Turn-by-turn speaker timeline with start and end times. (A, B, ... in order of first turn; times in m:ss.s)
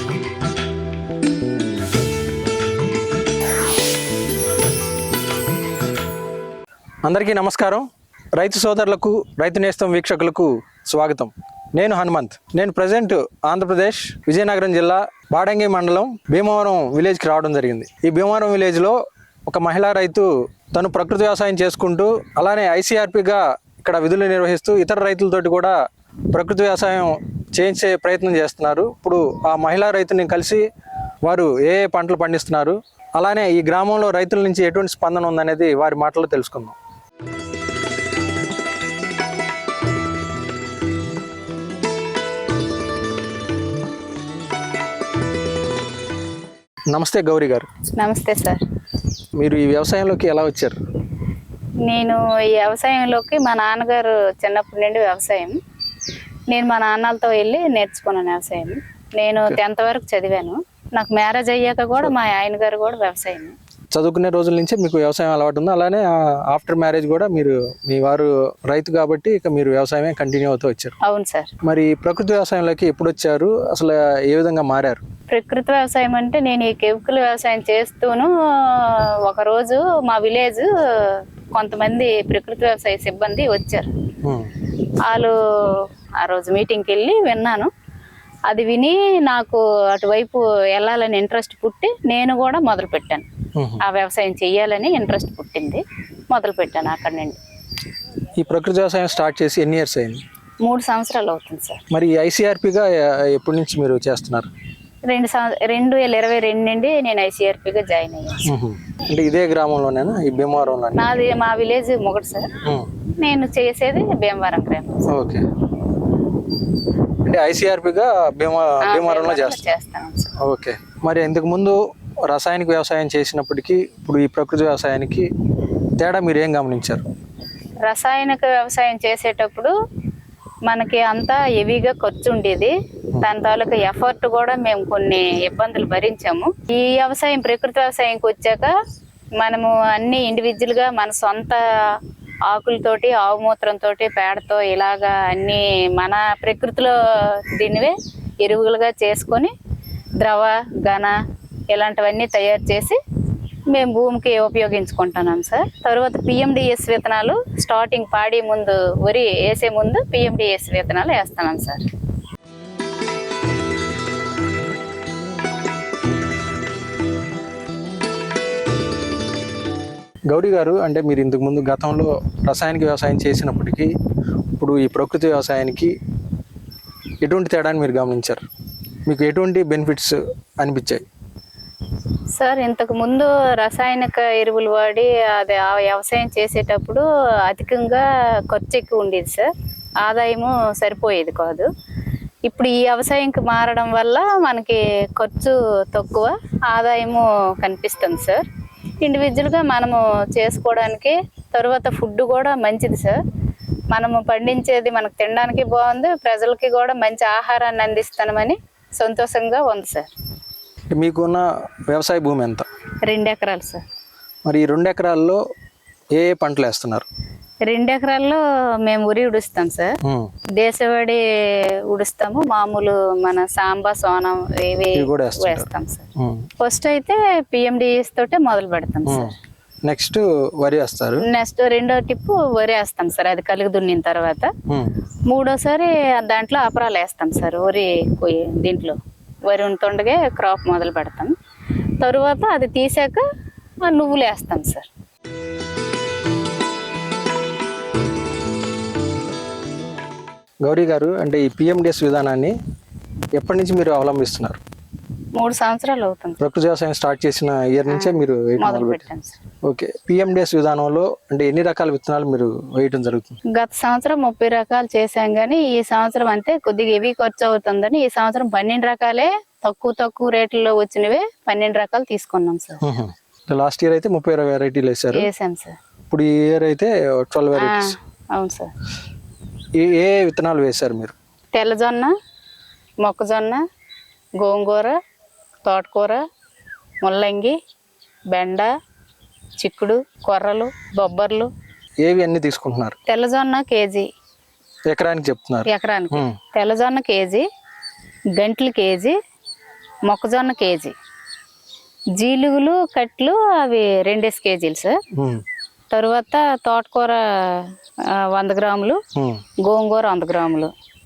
0:07.0-0:25.8 A
0:26.3-0:30.6 A
0:31.2-0:36.8 A
0:46.9-0:47.7 A
0:48.0-0:48.6 B
0:49.4-0:50.8 A
0:51.8-0:55.6 B
0:56.5-1:03.5 B
1:03.9-1:10.9 A
1:11.0-1:11.5 B
1:11.6-1:15.0 A
1:15.3-1:23.9 B
1:24.2-1:24.5 A
1:25.0-1:25.3 B
1:26.2-1:27.7 B
1:28.5-1:33.2 B
1:33.6-1:33.8 A
1:33.8-1:37.4 B
1:38.4-1:40.2 A
1:40.6-1:41.8 B
1:41.9-1:44.5 A
1:45.1-1:48.5 B
1:48.4-1:51.2 A
1:51.0-1:52.5 B
1:52.6-1:52.9 A
1:53.2-1:55.1 B
1:55.1-1:55.4 A
1:57.2-1:59.6 A
1:58.8-2:00.3 B
2:00.4-2:05.3 A
2:06.0-2:07.0 A
2:07.8-2:09.7 B
2:10.6-2:18.7 B
2:19.4-2:21.6 B
2:22.5-2:26.9 B
2:27.5-2:29.5 B
2:30.2-2:31.1 B
2:31.7-2:33.0 B
2:33.7-2:41.8 B
2:50.3-2:53.9 A
2:54.6-2:55.9 A
2:57.2-2:58.4 A
2:59.0-3:01.0 A
3:02.4-3:09.5 B
3:10.0-3:11.7 B
3:12.4-3:18.4 B
3:19.0-3:23.2 B
3:23.9-3:30.1 B
3:30.9-3:32.7 A
3:33.0-3:33.8 B
3:34.4-3:35.4 A
3:36.1-3:37.1 A
3:37.6-3:39.9 B
3:40.0-3:40.3 A
3:40.6-3:41.2 B
3:41.9-3:46.1 B
3:44.9-3:46.4 A
3:46.6-3:49.3 B
3:49.1-3:49.3 A
3:49.8-3:51.2 A
3:51.2-3:54.5 B
3:55.3-4:01.3 B
4:02.0-4:03.2 B
4:03.8-4:04.9 B
4:10.6-4:12.6 A
4:13.3-4:14.6 A
4:15.4-4:16.4 B
4:16.4-4:19.0 A
4:17.9-4:19.4 B
4:19.6-4:23.4 A
4:23.5-4:32.8 B
4:32.8-4:35.3 A
4:35.1-4:35.8 B
4:36.1-4:37.9 A
4:37.6-4:38.7 B
4:39.8-4:41.1 A
4:41.5-4:42.1 B
4:43.0-4:43.6 B
4:44.4-4:45.0 B
4:45.6-4:46.2 B
4:47.0-4:47.6 B
4:48.3-4:48.7 B
4:49.6-4:51.5 B
4:52.0-4:53.0 A
4:53.1-4:54.0 B
4:54.9-4:56.4 A
4:55.7-4:57.4 B
4:58.4-4:59.1 B
5:00.1-5:00.9 B
5:02.2-5:05.0 B
5:05.1-5:05.4 A
5:05.9-5:07.7 B
5:08.3-5:09.0 B
5:09.2-5:09.4 A
5:09.6-5:10.7 B